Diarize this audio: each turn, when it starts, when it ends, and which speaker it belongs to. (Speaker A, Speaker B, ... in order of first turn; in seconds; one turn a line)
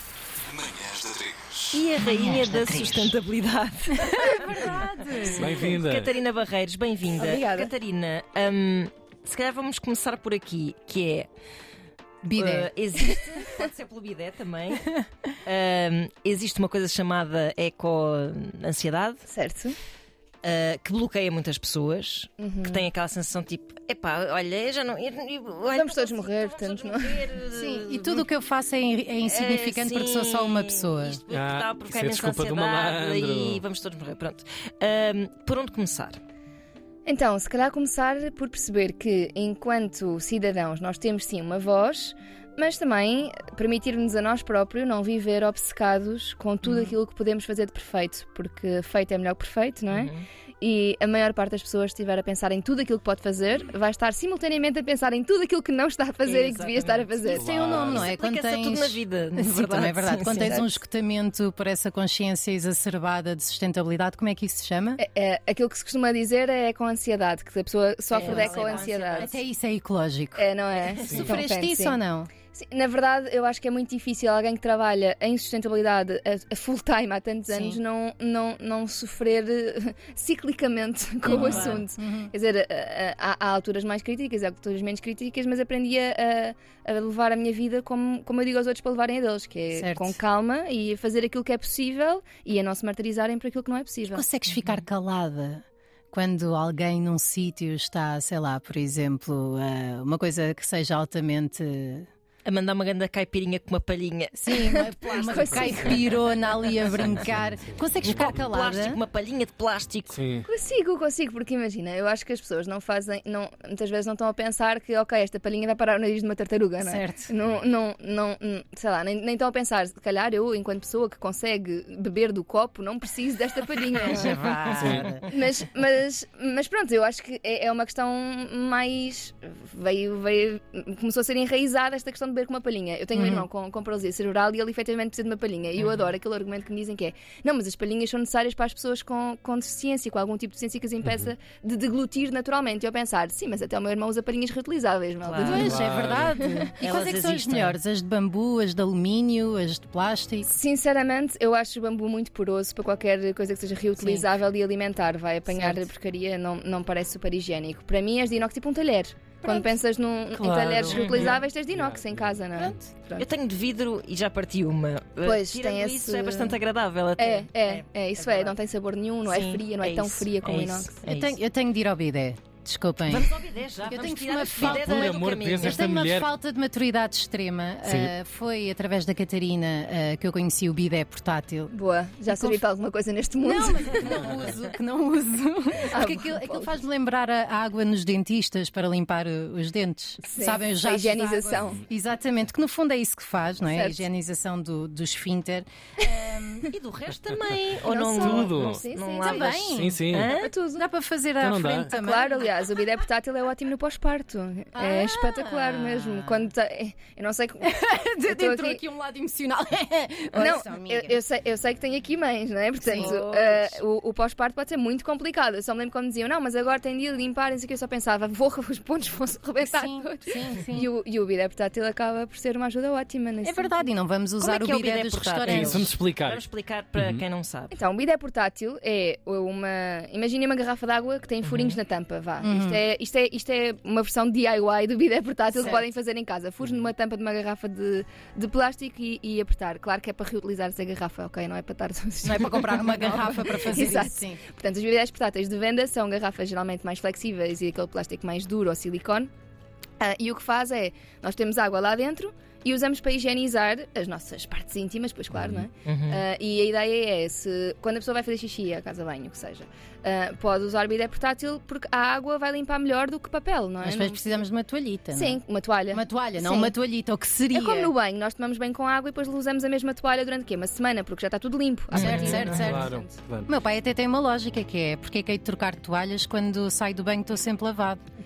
Speaker A: 0.6-1.4
Speaker B: 1.7-11.3
Speaker A: 2.0-3.2
Speaker C: 4.0-5.7
Speaker D: 5.3-6.1
Speaker E: 7.1-7.7
Speaker C: 12.2-12.7
Speaker B: 12.3-14.9
Speaker B: 15.4-19.2
Speaker E: 19.3-19.8
Speaker B: 20.4-28.3
Speaker E: 22.4-22.9
Speaker E: 25.7-27.3
Speaker C: 27.6-31.2
Speaker B: 29.2-36.2
Speaker D: 31.3-33.6
Speaker E: 37.0-57.5
Speaker B: 46.6-47.0
Speaker B: 49.9-50.2
Speaker B: 56.2-60.8
Speaker C: 57.3-65.0
Speaker D: 57.3-58.1
Speaker E: 65.0-69.3
Speaker B: 68.1-69.4
Speaker C: 68.2-70.5
Speaker E: 70.3-72.0
Speaker D: 71.0-71.4
Speaker C: 71.1-72.3
Speaker E: 72.5-94.2
Speaker C: 77.5-77.8
Speaker B: 81.2-81.8
Speaker C: 81.3-82.3
Speaker C: 89.7-90.2
Speaker C: 94.0-102.1
Speaker B: 102.4-104.5
Speaker C: 104.3-109.0
Speaker E: 104.5-106.1
Speaker B: 105.0-107.1
Speaker D: 106.9-108.5
Speaker B: 108.0-110.2
Speaker D: 110.1-110.5
Speaker E: 110.5-124.5
Speaker C: 116.8-117.3
Speaker B: 124.0-125.2
Speaker D: 124.8-125.1
Speaker E: 125.3-146.7
Speaker C: 133.1-133.5
Speaker B: 145.2-145.7
Speaker C: 145.4-150.5
Speaker D: 145.6-146.3
Speaker B: 146.8-147.8
Speaker E: 150.4-163.3
Speaker C: 154.0-154.3
Speaker B: 155.5-155.9
Speaker C: 159.4-159.8
Speaker C: 160.3-161.3
Speaker B: 160.9-161.4
Speaker D: 161.7-162.4
Speaker C: 162.6-162.8
Speaker B: 163.2-168.6
Speaker E: 165.2-166.6
Speaker E: 167.2-170.9
Speaker B: 169.2-171.4
Speaker C: 171.0-181.7
Speaker B: 173.1-175.8
Speaker D: 174.6-176.3
Speaker D: 177.8-178.1
Speaker E: 181.7-184.2
Speaker C: 182.2-182.6
Speaker C: 183.4-196.7
Speaker E: 185.9-186.8
Speaker E: 190.2-191.8
Speaker E: 193.7-194.1
Speaker B: 196.7-200.5
Speaker E: 197.8-199.7
Speaker D: 198.2-198.8
Speaker C: 199.2-199.9
Speaker D: 199.7-200.3
Speaker E: 200.2-200.9
Speaker C: 200.8-202.5
Speaker D: 201.4-201.9
Speaker E: 201.9-208.8
Speaker C: 204.7-206.5
Speaker C: 207.6-211.2
Speaker E: 210.3-223.8
Speaker C: 212.8-213.2
Speaker B: 212.9-213.8
Speaker C: 219.6-220.9
Speaker C: 223.4-225.9
Speaker B: 224.4-227.7
Speaker D: 225.5-226.4
Speaker D: 226.9-227.2
Speaker E: 227.7-249.3
Speaker B: 231.4-231.8
Speaker C: 232.4-232.8
Speaker C: 235.5-235.8
Speaker C: 242.2-244.4
Speaker E: 250.0-264.4
Speaker D: 255.3-255.7
Speaker B: 255.8-256.2
Speaker C: 263.8-267.9
Speaker E: 265.1-266.7
Speaker E: 267.5-273.1
Speaker B: 271.9-272.6
Speaker C: 271.9-272.9
Speaker D: 272.6-273.5
Speaker C: 273.5-278.0